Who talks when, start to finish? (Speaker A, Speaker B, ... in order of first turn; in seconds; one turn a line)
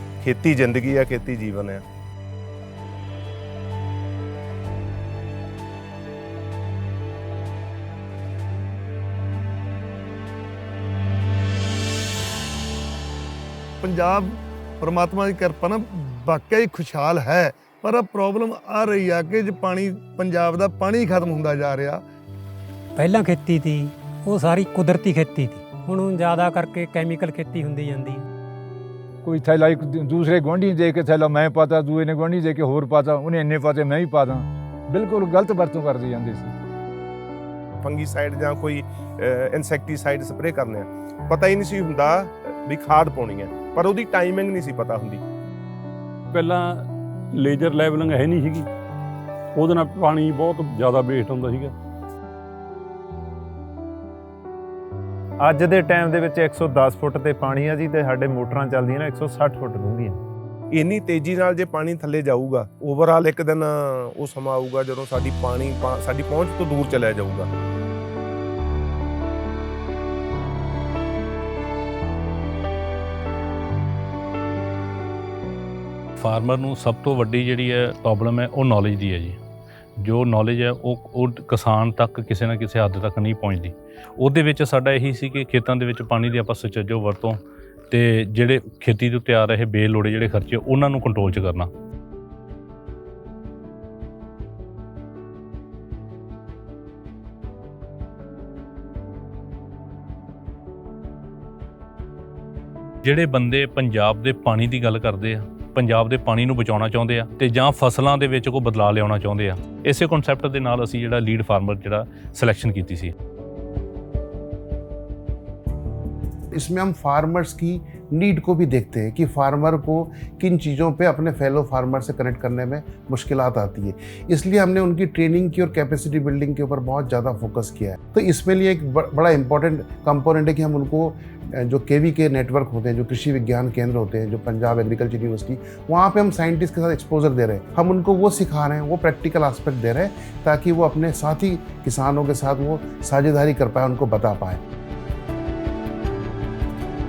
Speaker A: 0.2-1.8
Speaker B: 13.8-22.0
Speaker C: 23.0-28.3
Speaker D: 29.2-36.5
Speaker A: 37.8-45.2
Speaker E: 46.3-46.8
Speaker E: 47.3-48.7
Speaker E: 49.5-51.7
Speaker F: 55.4-60.2
Speaker A: 60.7-67.5
Speaker G: 76.2-79.4
Speaker G: 80.0-91.7
Speaker G: 103.0-113.1
Speaker H: 116.5-144.6